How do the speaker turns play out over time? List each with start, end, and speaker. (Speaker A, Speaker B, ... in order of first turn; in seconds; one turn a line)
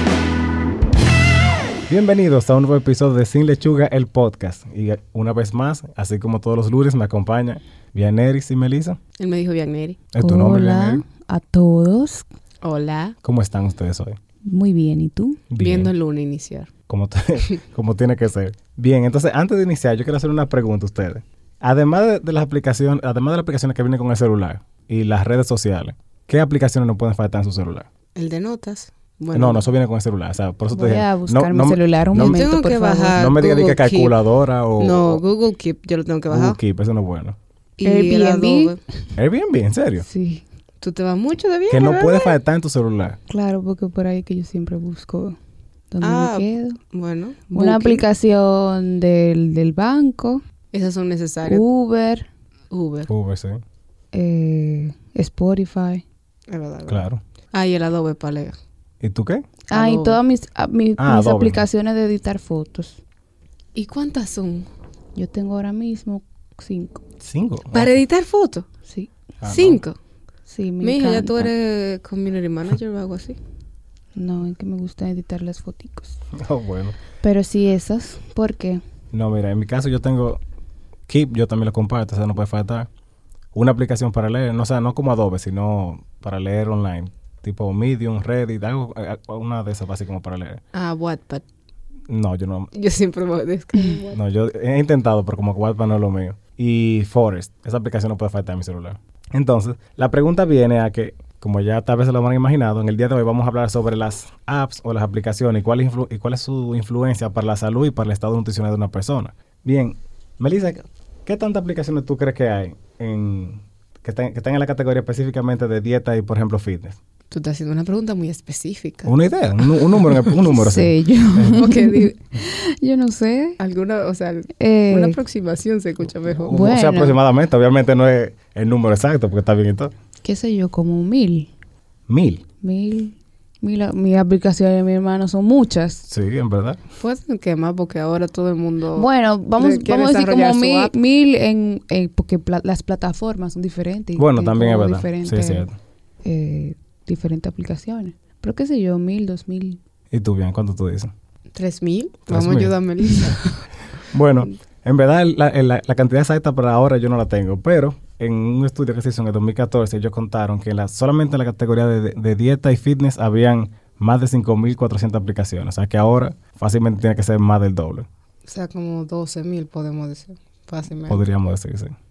Speaker A: 1.9-9.0
Speaker B: 9.2-10.0
Speaker A: 10.1-11.0
Speaker C: 10.2-12.2
Speaker B: 12.6-13.2
Speaker A: 13.2-14.2
Speaker C: 14.4-15.4
Speaker A: 15.5-15.9
Speaker B: 15.6-16.7
Speaker A: 16.9-27.9
Speaker B: 28.1-29.6
Speaker A: 29.3-32.5
Speaker C: 30.7-33.2
Speaker B: 32.1-34.2
Speaker A: 33.1-35.2
Speaker B: 34.8-36.6
Speaker A: 36.3-37.4
Speaker B: 37.8-38.8
Speaker C: 37.8-38.7
Speaker A: 39.2-40.0
Speaker C: 40.0-40.4
Speaker B: 40.8-42.4
Speaker A: 41.7-43.2
Speaker C: 43.3-45.4
Speaker C: 45.9-46.8
Speaker B: 46.0-48.0
Speaker C: 47.5-50.4
Speaker B: 50.7-51.6
Speaker C: 51.4-52.3
Speaker B: 52.7-53.1
Speaker A: 53.1-53.6
Speaker C: 54.1-56.0
Speaker B: 56.5-58.5
Speaker A: 56.9-57.2
Speaker A: 59.0-59.5
Speaker C: 59.7-63.0
Speaker B: 59.7-60.2
Speaker A: 61.0-61.6
Speaker B: 63.7-64.7
Speaker C: 65.2-67.0
Speaker A: 67.2-68.0
Speaker B: 67.7-68.7
Speaker A: 69.4-69.8
Speaker B: 69.4-70.0
Speaker C: 70.5-71.5
Speaker B: 70.8-73.4
Speaker C: 74.1-76.2
Speaker A: 76.3-77.0
Speaker C: 77.2-78.8
Speaker A: 79.1-80.4
Speaker A: 81.1-82.9
Speaker A: 83.5-90.6
Speaker B: 90.7-91.4
Speaker A: 92.1-92.7
Speaker B: 92.7-94.2
Speaker A: 94.1-117.0
Speaker B: 117.3-120.3
Speaker A: 119.0-121.6
Speaker C: 120.5-123.6
Speaker B: 121.5-122.1
Speaker B: 123.6-126.6
Speaker C: 124.6-125.2
Speaker A: 126.2-129.9
Speaker C: 126.5-127.2
Speaker C: 130.2-131.5
Speaker A: 132.1-132.4
Speaker C: 132.6-136.1
Speaker A: 136.1-136.8
Speaker B: 137.0-140.9
Speaker C: 138.9-145.7
Speaker A: 144.2-145.7
Speaker C: 146.2-149.8
Speaker A: 150.1-151.1
Speaker B: 151.5-153.7
Speaker A: 152.3-152.8
Speaker A: 154.1-168.1
Speaker B: 168.5-171.2
Speaker A: 171.1-171.9